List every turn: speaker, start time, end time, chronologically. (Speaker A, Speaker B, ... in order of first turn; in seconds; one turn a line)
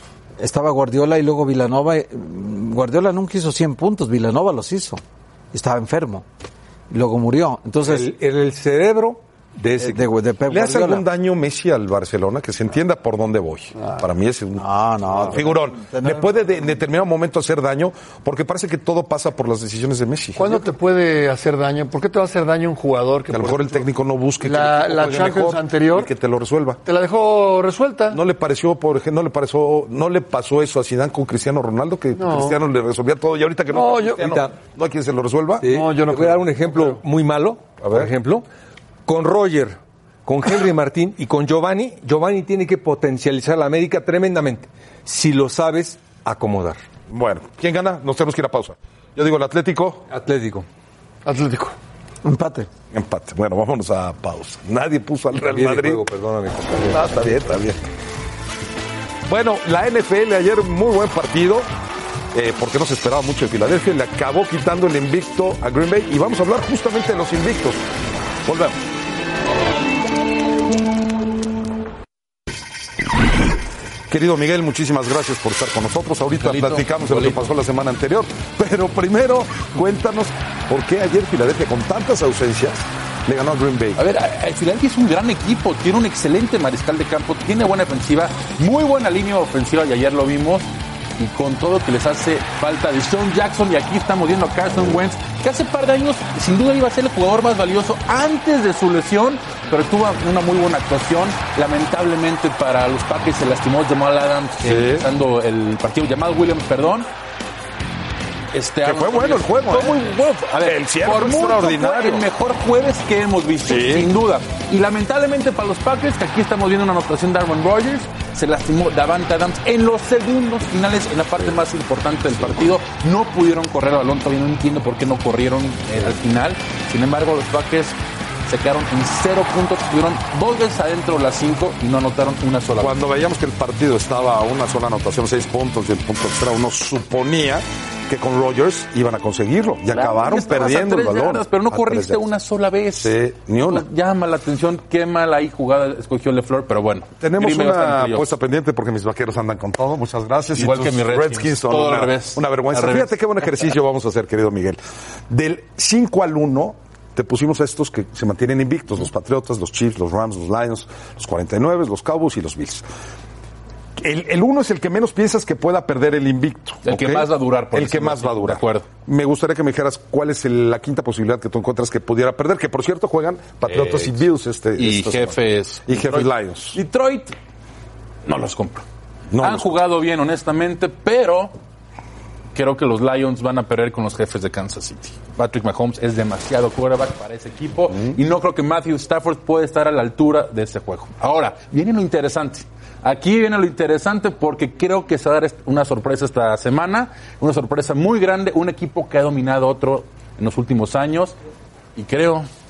Speaker A: 0.4-5.0
Speaker A: 5.5-6.2
Speaker A: 6.9-8.1
Speaker B: 7.8-10.1
Speaker A: 9.8-11.1
Speaker C: 10.5-20.6
Speaker A: 14.6-16.6
Speaker D: 20.4-23.8
Speaker C: 23.3-26.8
Speaker D: 24.4-26.1
Speaker D: 26.8-28.2
Speaker C: 28.1-35.7
Speaker D: 32.1-32.6
Speaker D: 33.7-34.3
Speaker B: 34.2-34.5
Speaker B: 35.6-38.4
Speaker D: 35.6-36.9
Speaker C: 37.8-38.1
Speaker B: 39.0-46.8
Speaker C: 47.1-50.0
Speaker B: 50.1-50.6
Speaker D: 51.2-51.8
Speaker A: 52.2-52.7
Speaker C: 52.9-56.0
Speaker B: 55.3-57.4
Speaker C: 56.8-57.8
Speaker C: 59.3-61.7
Speaker C: 62.3-67.8
Speaker C: 68.4-68.8
Speaker C: 74.1-84.0
Speaker E: 76.3-77.5
Speaker E: 84.0-90.7
Speaker E: 91.2-107.1
Speaker C: 104.6-105.0
Speaker E: 108.5-133.1
Speaker C: 108.8-109.9
Speaker C: 110.6-112.2
Speaker C: 113.6-114.1
Speaker C: 132.8-142.2
Speaker E: 139.9-148.4
Speaker C: 143.0-143.9
Speaker C: 147.2-154.8
Speaker E: 150.5-153.6
Speaker C: 155.3-162.8
Speaker C: 164.0-175.4
Speaker E: 166.8-168.9
Speaker E: 173.7-177.3
Speaker C: 175.9-176.8
Speaker E: 178.2-178.8
Speaker C: 179.3-179.8
Speaker E: 179.4-181.5
Speaker E: 182.5-201.3
Speaker E: 201.9-202.5